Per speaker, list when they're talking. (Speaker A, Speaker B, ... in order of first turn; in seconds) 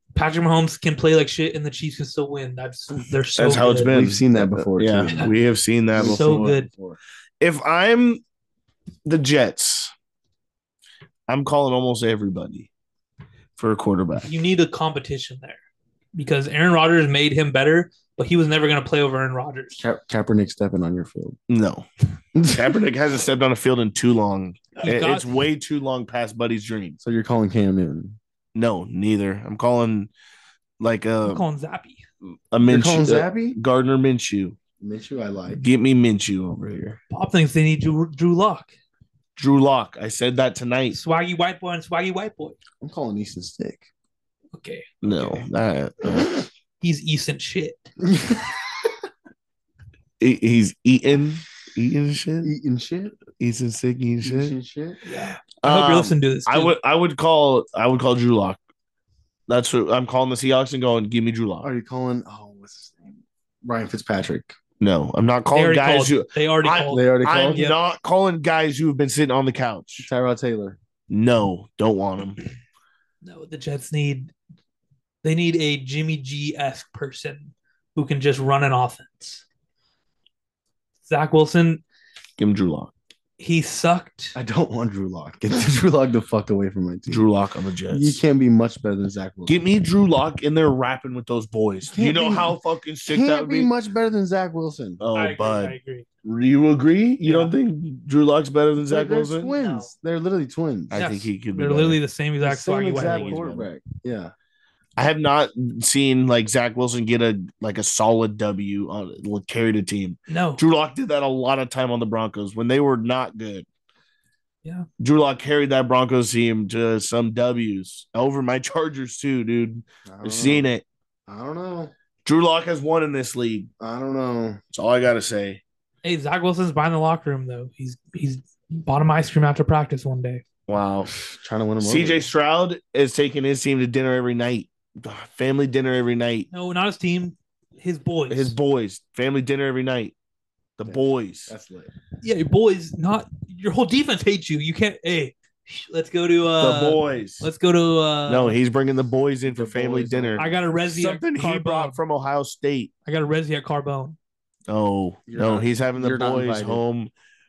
Speaker A: 0.1-4.0, 6.0-6.7, 14.2-15.6, 16.1-19.8, 24.8-25.4, 31.2-32.0, 37.1-38.7, 40.9-42.6, 44.5-45.5, 46.8-47.9, 55.0-56.8, 65.5-67.8, 73.2-74.3, 75.2-79.4, 81.1-81.8, 83.4-84.3, 95.2-96.1, 97.2-97.6, 99.5-99.9, 100.9-103.4, 110.3-110.6, 126.0-130.4, 136.5-138.6, 142.2-148.6, 150.4-152.0, 153.1-154.2
Speaker B: 3.4-6.5, 7.4-8.2, 9.1-9.9, 11.3-12.7, 13.6-14.3, 21.5-21.9, 22.4-27.0, 28.6-30.1, 30.8-31.4, 32.5-34.6, 35.6-37.0, 39.4-41.0, 45.0-46.4, 50.2-52.5, 53.4-54.5, 55.6-58.6, 59.5-61.7, 64.8-70.1, 71.1-72.4, 82.4-82.9, 87.1-88.2, 89.5-93.7, 95.0-99.5, 100.9-102.0, 102.9-103.7, 105.0-113.7, 115.0-120.8, 122.2-123.7, 124.7-125.6, 130.7-131.1, 131.8-136.5, 138.3-140.2, 140.8-141.5, 146.6-147.5, 148.3-152.9, 154.7-157.1
Speaker C: 3.7-5.3, 6.0-7.0, 19.8-21.4, 22.3-22.8, 27.0-28.2, 32.6-33.6, 34.8-35.6, 42.8-43.9, 48.0-48.5, 52.4-53.2, 54.2-55.0, 61.6-64.5, 66.8-67.7, 70.0-70.8, 84.3-87.3, 87.9-89.6, 91.9-95.0, 98.8-101.0, 102.4-104.3, 120.1-120.7, 121.3-121.9, 123.8-124.6, 131.2-132.3, 140.9-141.9, 149.4-150.6, 155.3-156.8